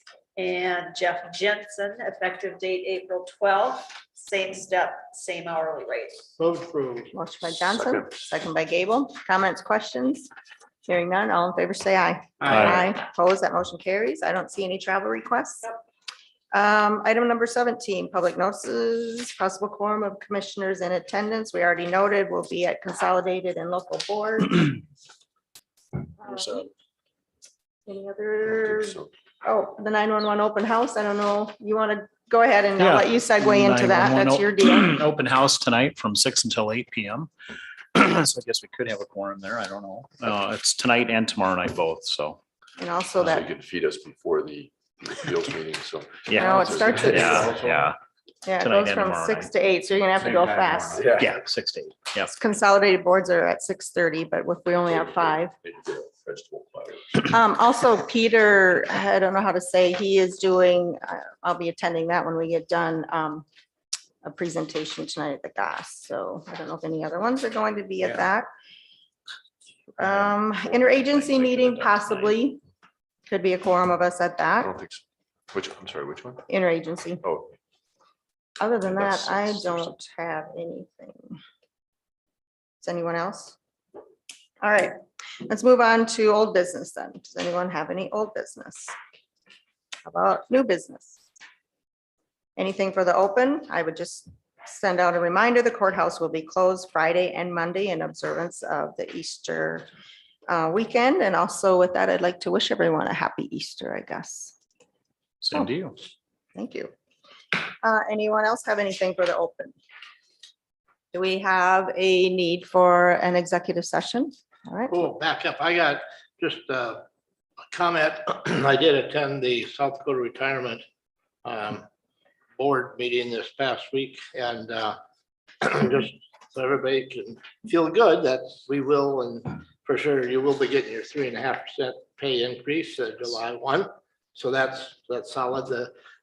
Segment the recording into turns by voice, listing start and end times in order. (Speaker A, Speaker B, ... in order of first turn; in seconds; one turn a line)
Speaker A: 0.3-6.2
Speaker B: 6.4-7.1
Speaker C: 7.1-10.3
Speaker C: 10.8-15.7
Speaker B: 12.4-12.8
Speaker D: 12.5-12.8
Speaker C: 16.5-24.8
Speaker C: 26.2-26.7
Speaker C: 27.9-35.0
Speaker E: 28.5-29.1
Speaker D: 32.8-37.3
Speaker D: 37.9-42.4
Speaker C: 42.8-43.5
Speaker E: 43.2-47.7
Speaker D: 46.3-48.0
Speaker C: 46.3-47.5
Speaker B: 46.9-47.8
Speaker C: 48.4-51.1
Speaker D: 48.6-49.5
Speaker D: 50.2-52.3
Speaker E: 50.9-51.3
Speaker C: 52.3-55.5
Speaker E: 54.9-57.3
Speaker C: 57.2-63.5
Speaker C: 64.2-68.5
Speaker D: 70.0-72.3
Speaker C: 70.0-72.6
Speaker C: 73.3-74.7
Speaker E: 74.6-76.4
Speaker C: 76.5-77.2
Speaker E: 77.2-77.5
Speaker C: 78.6-81.4
Speaker E: 78.9-79.9
Speaker C: 82.8-83.5
Speaker C: 84.6-88.9
Speaker C: 90.0-91.2
Speaker C: 92.5-99.9
Speaker C: 100.5-104.5
Speaker D: 105.4-106.0
Speaker C: 106.5-106.9
Speaker C: 107.8-109.7
Speaker C: 111.1-115.0
Speaker B: 114.9-117.0
Speaker B: 117.7-120.8
Speaker B: 121.4-121.8
Speaker B: 122.6-125.0
Speaker B: 125.6-135.9